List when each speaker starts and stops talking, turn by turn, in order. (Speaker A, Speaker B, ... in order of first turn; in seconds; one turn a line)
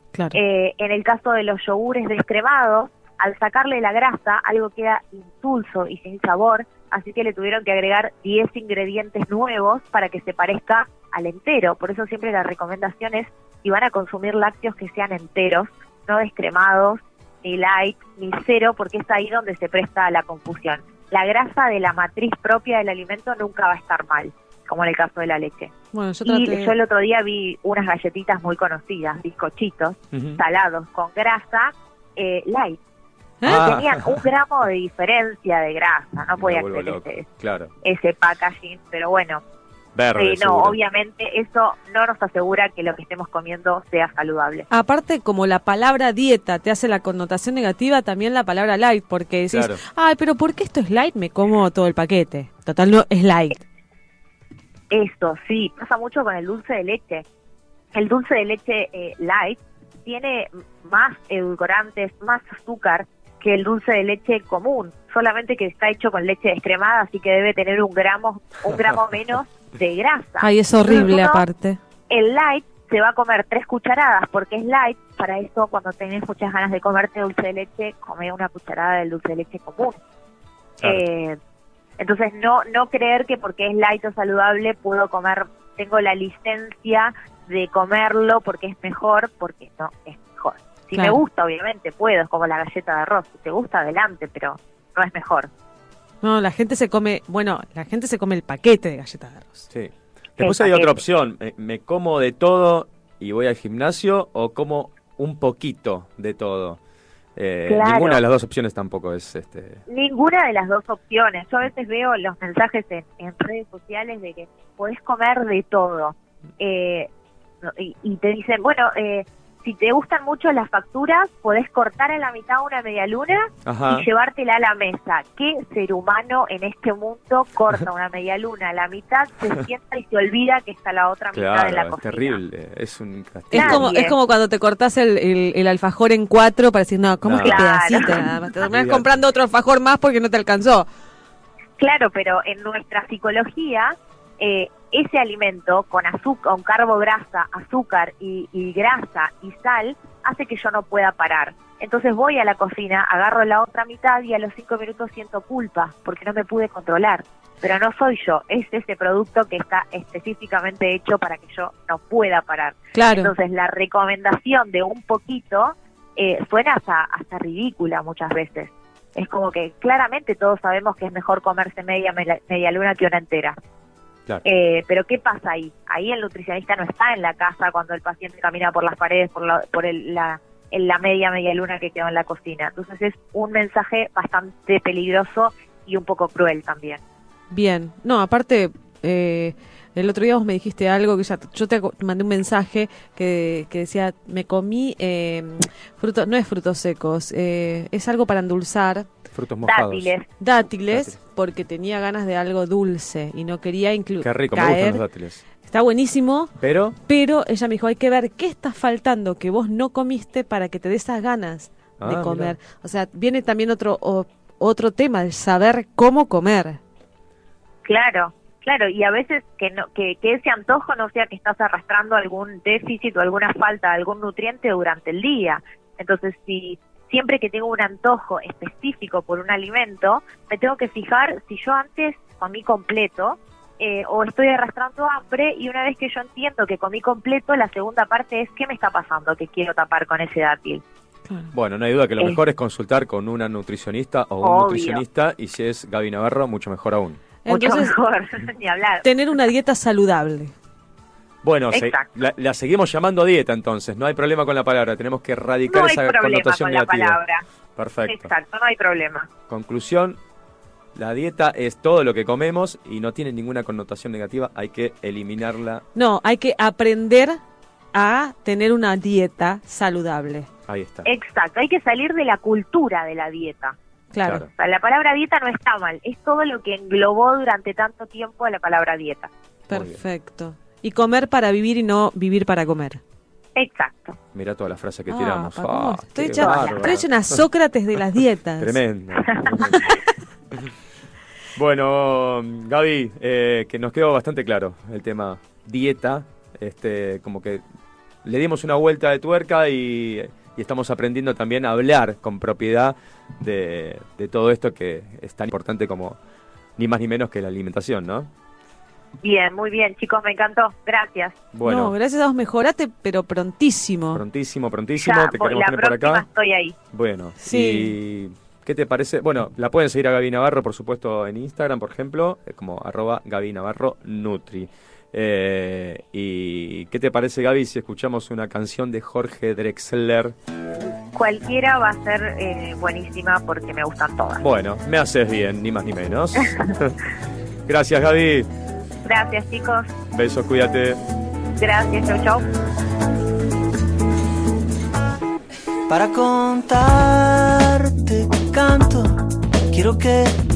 Speaker A: 0.3-25.7
Speaker B: 25.9-26.7
Speaker A: 26.2-32.8
Speaker C: 30.1-30.4
Speaker B: 33.4-33.7
Speaker C: 33.5-34.2
Speaker A: 33.5-37.2
Speaker C: 36.4-37.7
Speaker A: 37.8-39.4
Speaker C: 39.9-40.8
Speaker A: 40.1-44.6
Speaker B: 44.7-53.6
Speaker C: 49.5-49.8
Speaker A: 54.9-57.2
Speaker A: 57.9-71.4
Speaker B: 70.4-71.8
Speaker A: 72.1-80.0
Speaker A: 80.8-81.4
Speaker A: 82.0-95.5
Speaker B: 90.9-91.2
Speaker B: 96.2-99.7
Speaker C: 99.7-106.8
Speaker A: 100.4-101.0
Speaker C: 107.3-109.8
Speaker A: 107.7-108.2
Speaker A: 109.9-117.1
Speaker A: 117.6-132.4
Speaker C: 123.7-124.0
Speaker C: 131.3-133.8
Speaker B: 133.5-140.9
Speaker A: 133.5-134.1
Speaker C: 137.2-137.6
Speaker A: 137.4-138.1
Speaker C: 138.6-139.1
Speaker A: 141.8-173.6
Speaker B: 162.9-163.3
Speaker A: 174.4-187.0
Speaker B: 187.5-199.1
Speaker C: 199.3-200.1
Speaker A: 199.7-200.2
Speaker B: 200.4-205.0
Speaker C: 200.9-201.2
Speaker C: 204.2-205.4
Speaker B: 205.6-206.5
Speaker C: 206.6-206.9
Speaker B: 207.1-216.8
Speaker C: 212.0-212.5
Speaker A: 217.8-240.8
Speaker C: 241.5-247.2
Speaker A: 244.4-245.0
Speaker B: 247.4-247.9
Speaker A: 247.5-249.0
Speaker B: 249.0-250.5
Speaker C: 251.4-257.2
Speaker A: 251.7-252.0
Speaker A: 255.7-257.4
Speaker C: 257.8-258.3
Speaker A: 258.1-259.3
Speaker C: 259.5-260.2
Speaker C: 260.9-265.8
Speaker B: 265.9-267.4
Speaker B: 267.9-270.5
Speaker C: 270.7-271.1
Speaker A: 271.0-273.7
Speaker B: 274.1-274.4
Speaker C: 274.2-274.5
Speaker A: 274.6-279.3
Speaker B: 279.7-283.0
Speaker C: 279.7-280.0
Speaker A: 283.6-284.1
Speaker C: 284.3-287.4
Speaker B: 285.1-288.8
Speaker A: 286.4-286.8
Speaker C: 288.6-289.8
Speaker C: 291.6-297.6
Speaker C: 298.2-306.2
Speaker C: 306.8-308.3
Speaker A: 309.2-311.4
Speaker C: 311.5-311.9
Speaker B: 311.6-314.2
Speaker C: 314.1-316.2
Speaker A: 315.0-316.7
Speaker C: 316.9-330.3
Speaker B: 317.4-317.9
Speaker A: 331.1-334.4
Speaker C: 334.4-336.9
Speaker C: 337.7-338.5
Speaker A: 339.0-339.9
Speaker C: 340.1-341.0
Speaker A: 341.6-342.4
Speaker D: 345.9-350.4